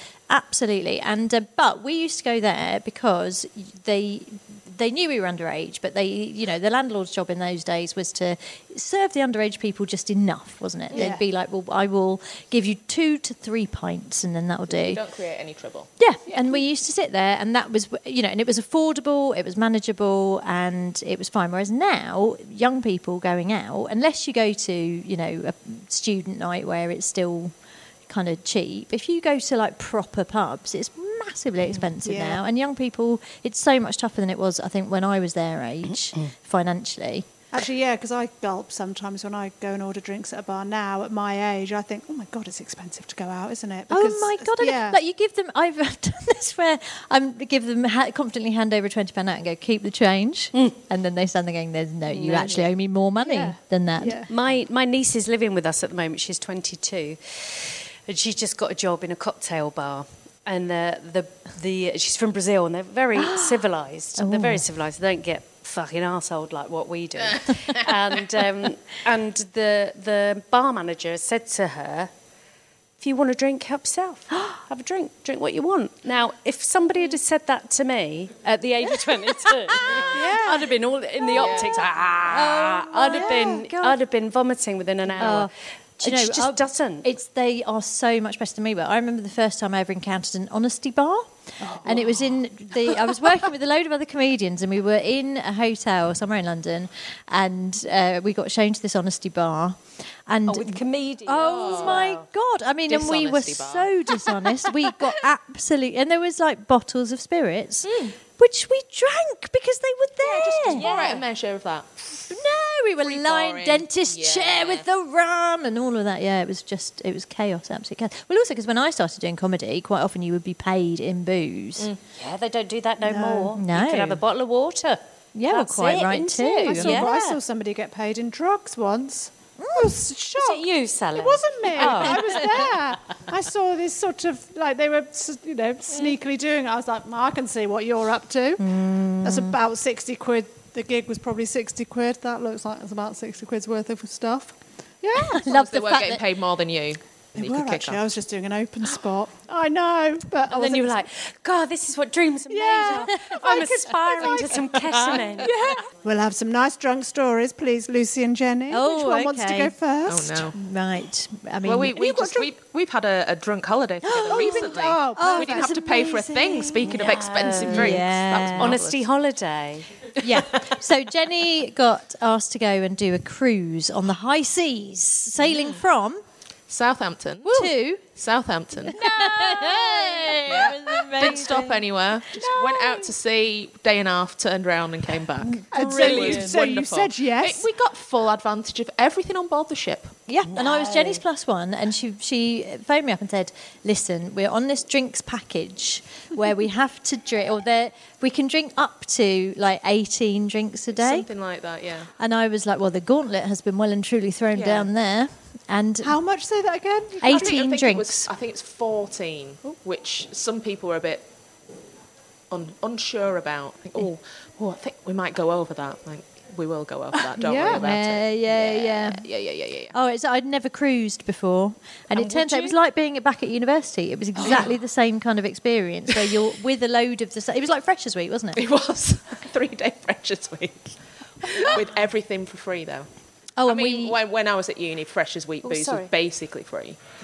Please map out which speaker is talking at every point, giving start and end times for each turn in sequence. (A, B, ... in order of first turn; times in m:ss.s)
0:00.3-0:15.0 A
0:10.9-0:11.2 B
0:14.7-0:15.9 C
0:16.0-0:27.5 A
0:28.1-0:37.3 A
0:32.0-0:32.4 B
0:37.5-0:45.0 B
0:43.9-0:54.2 A
0:52.1-0:52.7 D
0:53.2-0:54.3 B
0:54.2-1:12.1 D
1:03.2-1:03.6 A
1:04.2-1:04.6 A
1:13.0-1:27.1 D
1:19.8-1:20.1 A
1:19.8-1:20.1 C
1:20.1-1:20.7 B
1:21.3-1:21.8 C
1:22.3-1:24.0 A
1:23.1-1:23.6 B
1:25.2-1:25.5 A
1:26.0-1:31.3 A
1:31.6-1:32.2 B
1:31.8-1:50.8 A
1:32.9-1:33.2 B
1:40.5-1:42.3 D
1:41.5-1:42.1 C
1:42.9-1:43.9 C
1:47.8-1:48.1 C
1:50.2-1:52.4 C
1:50.7-1:51.2 D
1:52.3-2:01.9 A
1:53.0-1:54.8 C
2:02.1-2:07.4 D
2:03.0-2:03.5 B
2:03.5-2:04.2 A
2:05.3-2:07.0 A
2:06.7-2:18.6 B
2:09.6-2:09.9 A
2:10.3-2:12.4 D
2:11.8-2:12.6 A
2:18.6-2:19.6 A
2:19.2-2:25.3 B
2:25.1-2:26.2 A
2:25.4-2:28.0 C
2:27.4-2:31.0 B
2:30.5-2:35.5 D
2:32.5-2:40.5 B
2:38.7-2:39.7 A
2:40.0-2:40.5 C
2:40.5-2:42.3 A
2:41.6-2:49.0 C
2:42.1-2:42.4 B
2:44.0-2:46.8 A
2:44.3-2:45.8 B
2:46.8-2:50.0 D
2:47.6-2:48.8 A
2:50.2-2:56.2 A
2:55.4-2:55.8 C
2:56.7-2:59.0 C
2:57.4-2:58.0 A
2:58.9-3:01.8 A
3:00.3-3:10.1 C
3:02.4-3:03.0 D
3:05.4-3:06.5 D
3:05.7-3:07.6 B
3:10.3-3:21.2 A
3:10.4-3:11.2 D
3:20.9-3:22.1 C
3:22.2-3:26.2 A
3:24.5-3:24.9 C
3:26.0-3:27.6 B
3:27.2-3:28.3 A
3:27.2-3:31.2 C
3:32.5-3:39.9 C
3:37.3-3:37.8 B
3:37.7-3:39.2 A
3:39.9-3:48.6 A
3:42.1-3:42.7 C
3:44.4-3:44.7 C
3:48.6-3:50.9 C
3:51.4-3:53.1 C
3:53.6-3:54.2 A
3:53.6-3:57.0 C
3:55.6-3:56.1 D